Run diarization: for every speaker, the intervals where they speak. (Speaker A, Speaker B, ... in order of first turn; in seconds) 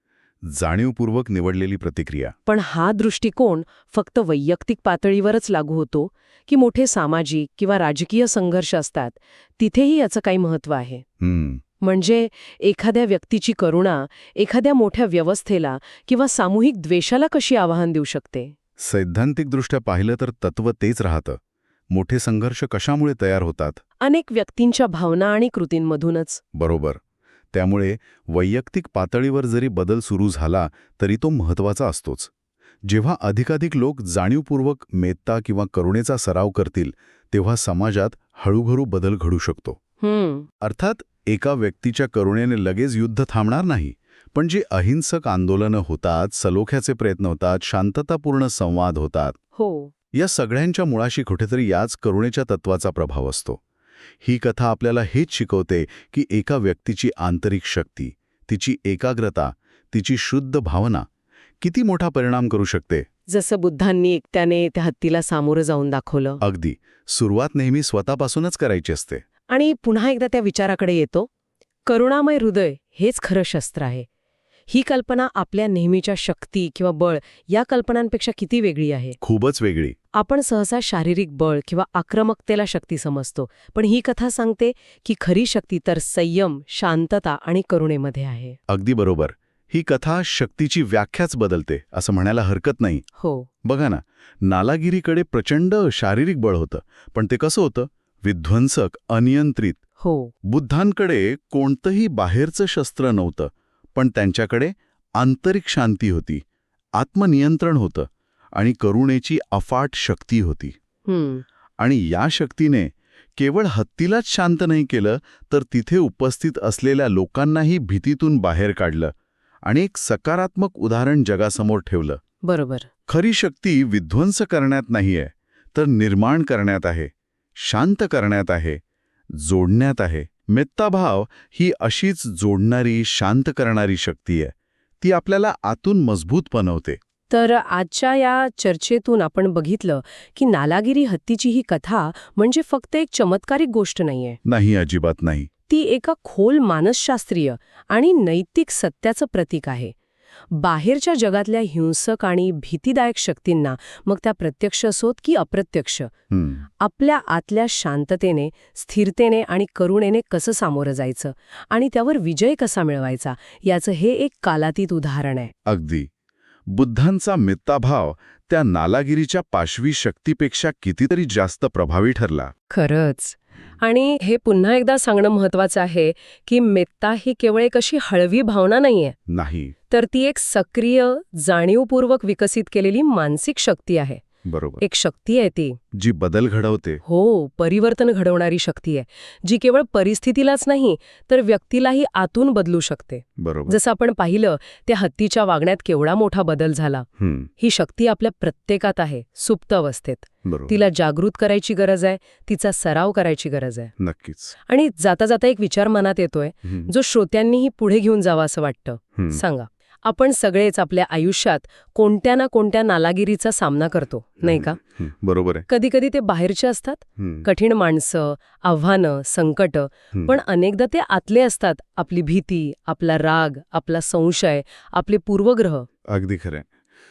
Speaker A: 0.4-2.4, 11.2-11.6, 18.8-21.4, 21.9-23.8, 26.6-27.0, 27.5-32.3, 32.9-39.8, 40.6-49.4, 50.1-53.6, 54.2-61.1, 61.6-63.1, 66.4-69.2, 79.2-80.0, 88.7-93.0, 93.7-99.8, 100.5-106.4, 107.0-110.8, 111.8-119.1, 119.7-122.2, 123.1-128.8, 129.3-137.0, 144.4-145.5, 156.3-156.6, 165.7-166.1, 166.7-172.5, 179.3-179.7, 184.5-184.8, 185.9-187.0, 193.4-193.8, 197.2-197.5, 200.4-200.8, 204.0-204.6, 206.7-206.9, 209.2-209.4, 214.4-215.7, 217.2-217.5, 226.1-226.7
Speaker B: 2.5-11.0, 11.8-18.5, 24.0-26.4, 40.0-40.5, 49.5-49.9, 63.3-66.4, 69.5-71.3, 71.9-74.1, 74.7-79.2, 80.1-88.6, 93.2-93.5, 100.0-100.3, 111.1-111.4, 122.4-122.9, 137.3-144.4, 145.7-149.9, 150.5-156.1, 156.8-165.5, 172.7-179.2, 179.9-184.2, 184.8-185.8, 187.0-197.1, 197.6-203.9, 204.7-214.8, 215.7-225.9